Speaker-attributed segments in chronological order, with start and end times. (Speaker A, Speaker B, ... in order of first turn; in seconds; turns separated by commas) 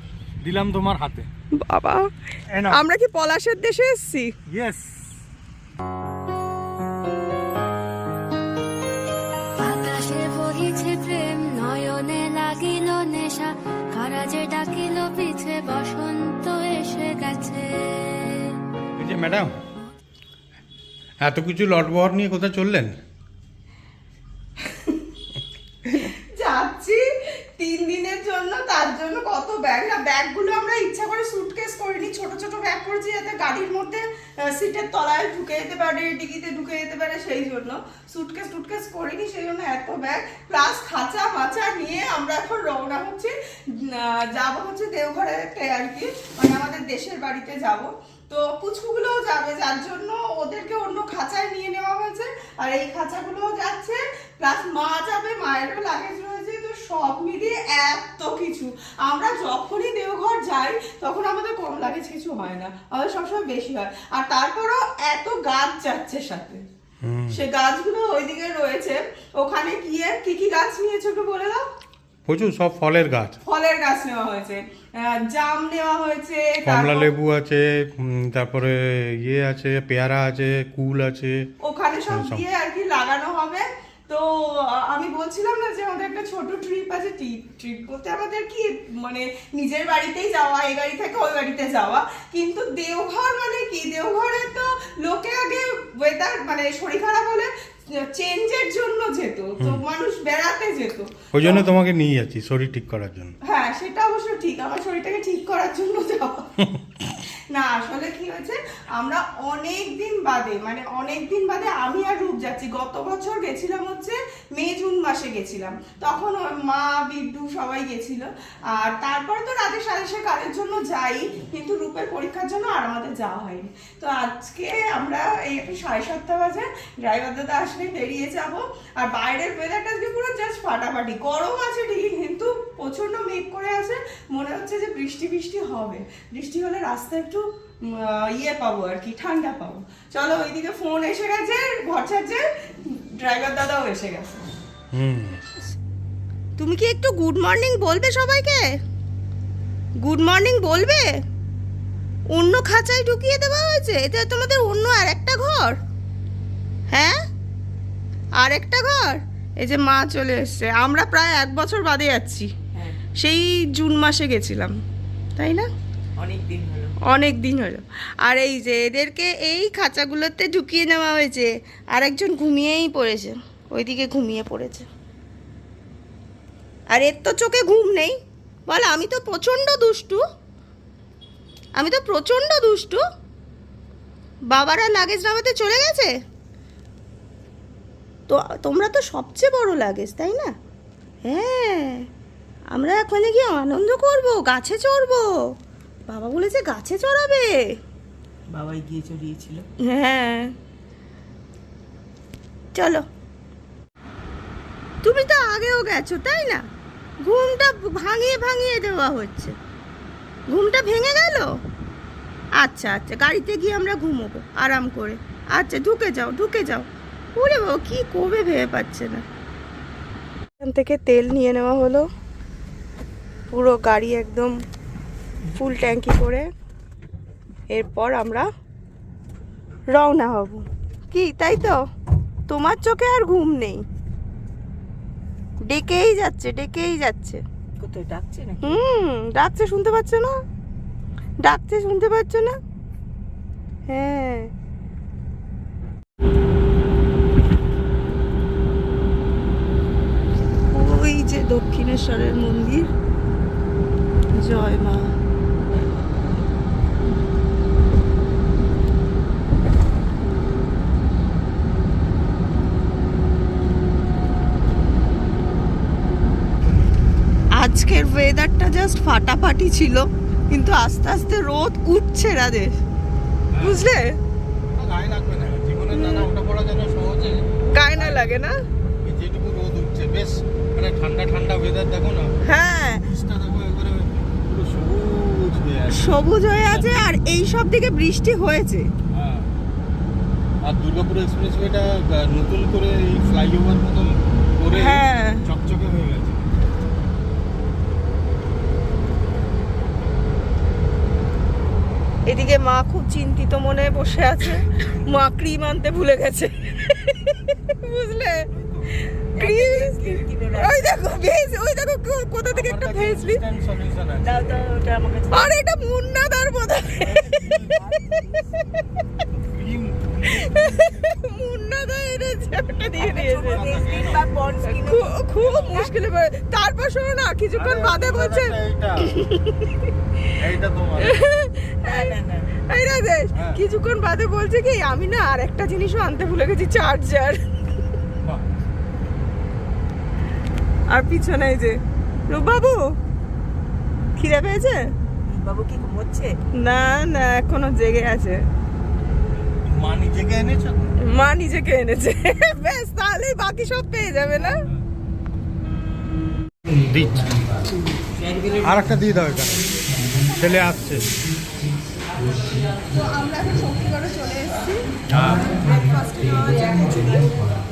Speaker A: 0.4-1.3, Speaker B: 1.6-2.1, Speaker A: 2.5-2.8, Speaker B: 2.7-4.3, Speaker A: 4.5-5.0, Speaker C: 9.6-18.5, Speaker A: 19.0-19.5, Speaker A: 21.2-22.9, Speaker B: 24.6-25.0, Speaker B: 26.1-66.6, Speaker A: 67.0-67.4, Speaker B: 67.3-71.6, Speaker A: 72.3-73.4, Speaker B: 73.5-77.1, Speaker A: 76.6-81.5, Speaker B: 81.6-101.6, Speaker A: 82.1-82.4, Speaker A: 101.3-103.3, Speaker B: 103.4-106.5, Speaker A: 106.6-107.0, Speaker B: 107.5-144.4, Speaker A: 144.9-145.4, Speaker B: 146.6-148.7, Speaker B: 150.0-151.1, Speaker B: 152.3-155.8, Speaker B: 156.9-157.2, Speaker B: 158.4-162.5, Speaker B: 163.2-164.8, Speaker B: 165.4-165.7, Speaker D: 166.2-167.0, Speaker B: 167.1-174.9, Speaker B: 176.9-180.2, Speaker B: 181.8-183.0, Speaker B: 184.5-186.1, Speaker B: 188.3-190.5, Speaker B: 191.2-192.1, Speaker B: 192.7-195.3, Speaker B: 196.1-197.6, Speaker D: 198.5-199.7, Speaker B: 199.8-200.5, Speaker B: 202.8-203.1, Speaker B: 205.0-206.6, Speaker B: 207.2-209.6, Speaker B: 210.5-211.5, Speaker B: 212.6-219.2, Speaker B: 220.6-222.1, Speaker B: 223.5-224.6, Speaker B: 225.5-226.5, Speaker B: 227.7-228.5, Speaker B: 229.9-231.8, Speaker B: 232.5-233.8, Speaker B: 235.7-237.4, Speaker D: 237.8-238.8, Speaker B: 238.6-240.4, Speaker B: 241.4-242.6, Speaker B: 243.9-244.5, Speaker B: 250.7-252.9, Speaker B: 254.4-255.1, Speaker B: 267.6-272.8, Speaker A: 273.5-273.8, Speaker B: 273.6-274.2, Speaker A: 274.7-278.2, Speaker B: 275.9-276.3, Speaker B: 277.7-278.6, Speaker A: 279.1-282.4, Speaker B: 282.4-283.0, Speaker A: 282.9-287.0, Speaker B: 285.9-288.9, Speaker A: 289.1-289.5, Speaker A: 290.6-296.5, Speaker B: 294.7-295.4, Speaker B: 302.2-308.4, Speaker A: 308.5-309.0, Speaker B: 309.4-313.4, Speaker D: 309.4-310.9, Speaker A: 312.5-314.6, Speaker D: 314.2-315.5, Speaker B: 315.3-317.8, Speaker A: 316.9-317.8, Speaker D: 317.6-318.6, Speaker A: 319.3-321.1, Speaker B: 320.3-323.9, Speaker D: 323.0-325.9, Speaker A: 323.2-324.2, Speaker B: 324.6-329.7, Speaker A: 327.6-329.2, Speaker A: 330.4-331.2, Speaker B: 331.0-332.1, Speaker D: 331.8-332.5, Speaker B: 332.7-337.5, Speaker A: 333.3-333.6, Speaker B: 340.9-342.8, Speaker B: 344.2-344.9, Speaker D: 345.3-346.4, Speaker B: 346.6-348.4, Speaker A: 349.7-351.0, Speaker B: 351.0-354.6, Speaker A: 356.7-357.5, Speaker D: 358.1-358.6, Speaker A: 358.6-359.7, Speaker B: 360.2-360.7, Speaker A: 360.3-361.1, Speaker B: 362.9-364.9, Speaker A: 365.1-365.6, Speaker B: 365.5-367.4